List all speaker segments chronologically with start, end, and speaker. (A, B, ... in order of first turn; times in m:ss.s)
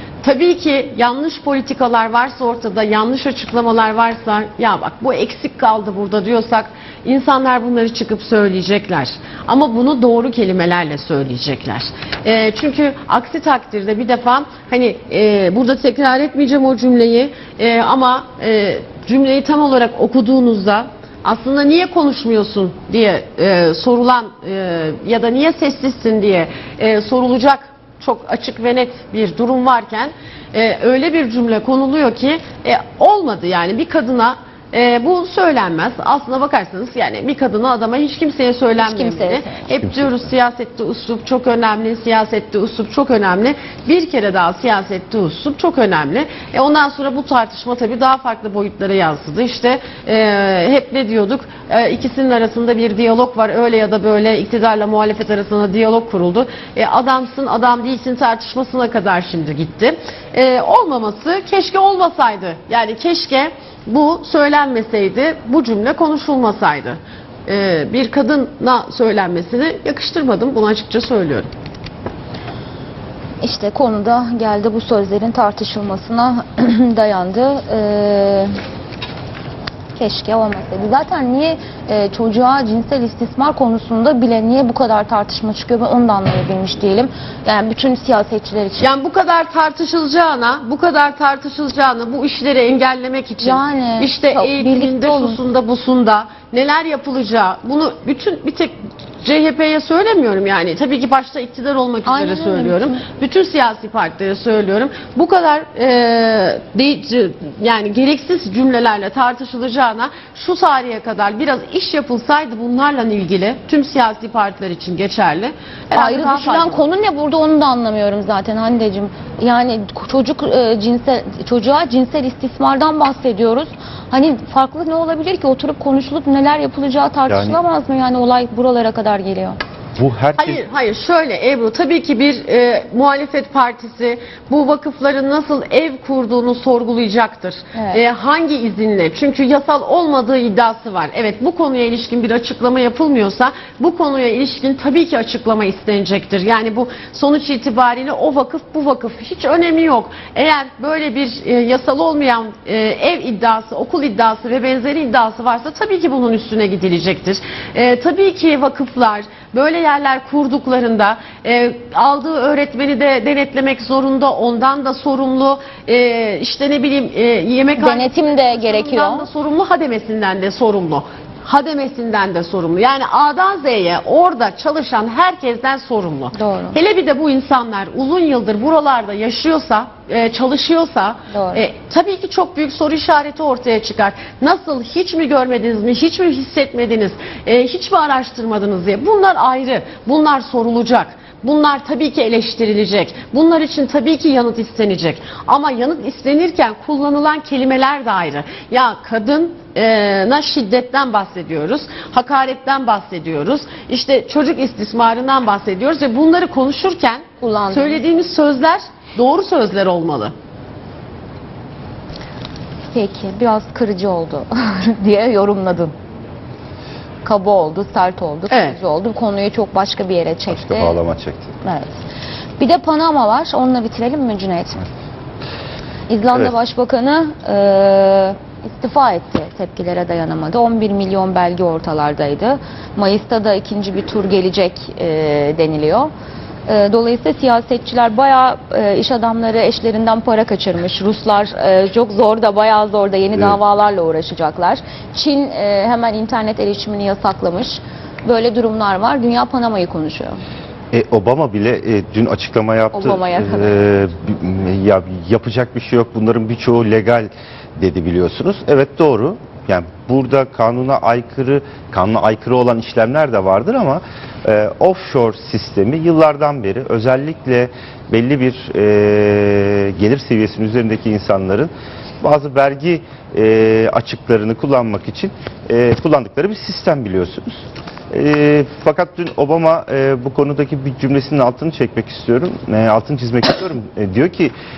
0:00.2-1:11.5 A
0:38.8-0:39.7 B
1:13.4-1:18.6 B
1:19.9-1:28.8 B
1:28.8-1:56.9 A
1:33.4-1:35.4 B
1:42.1-1:43.0 B
1:55.9-2:09.6 B
2:07.3-2:07.6 C
2:10.0-2:10.6 C
2:10.4-3:30.3 A
2:17.7-2:18.0 B
2:47.8-2:49.3 B
2:56.3-2:56.8 B
3:01.3-3:01.6 B
3:27.4-3:28.0 B
3:32.9-3:35.9 B
3:37.2-3:41.0 B
3:38.5-3:38.8 A
3:40.5-3:41.5 C
3:41.6-3:41.9 B
3:42.6-3:44.8 B
3:46.1-3:56.1 B
3:56.7-4:10.4 B
4:10.9-4:31.7 C
4:12.9-4:13.9 B
4:32.2-4:44.5 C